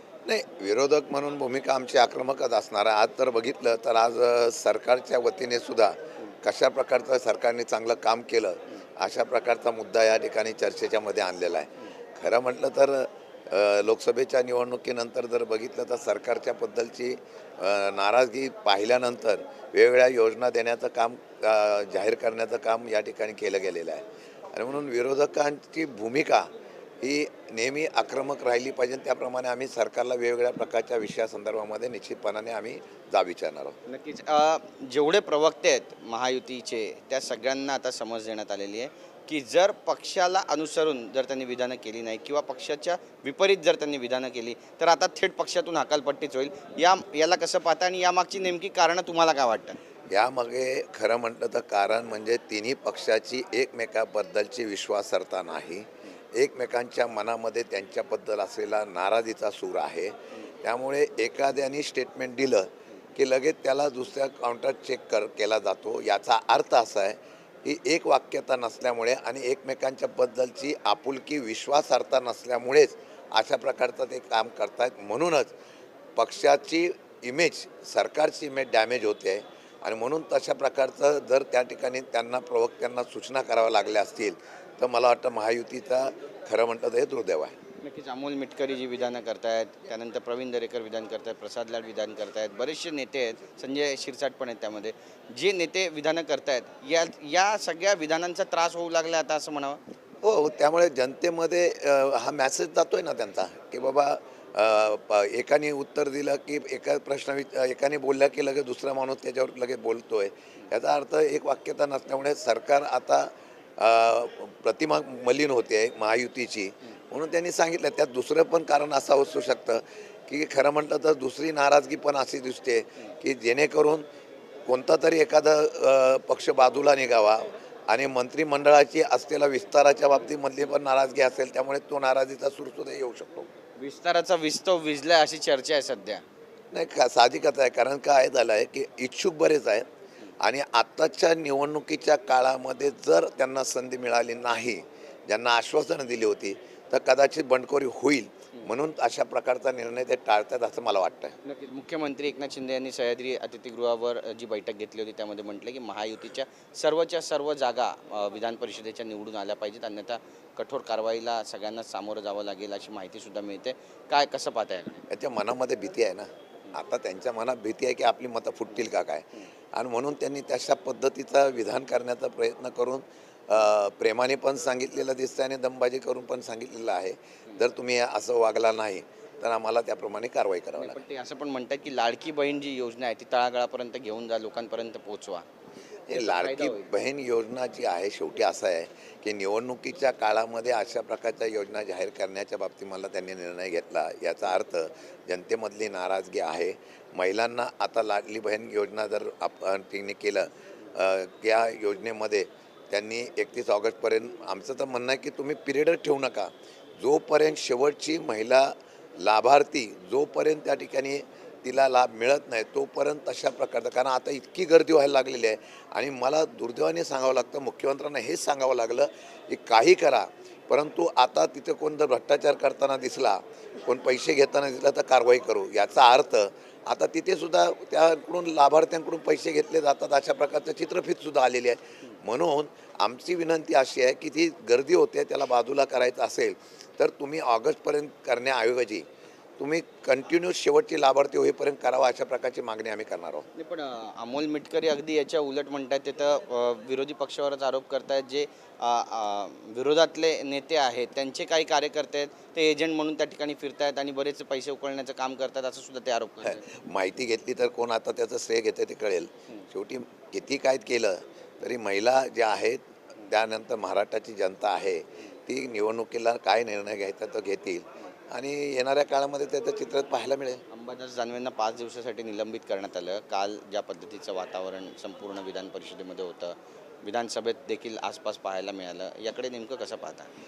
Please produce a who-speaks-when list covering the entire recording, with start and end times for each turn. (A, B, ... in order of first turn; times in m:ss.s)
0:00.2-0:26.5 A
0:27.0-0:33.8 A
0:33.9-0:49.8 B
0:50.1-1:15.5 A
1:16.2-1:27.6 A
1:27.8-1:39.8 B
1:40.2-2:04.0 A
2:04.6-2:13.5 A
2:13.8-2:16.2 B
2:16.7-2:19.8 A
2:20.4-2:31.4 A
2:31.4-2:45.0 B
2:45.1-3:01.0 A
3:00.8-3:05.4 B
3:06.1-3:59.0 A
3:06.1-3:06.9 B
3:59.6-4:03.4 A
4:03.6-4:16.6 B
4:16.4-4:30.6 A
4:30.7-4:40.3 B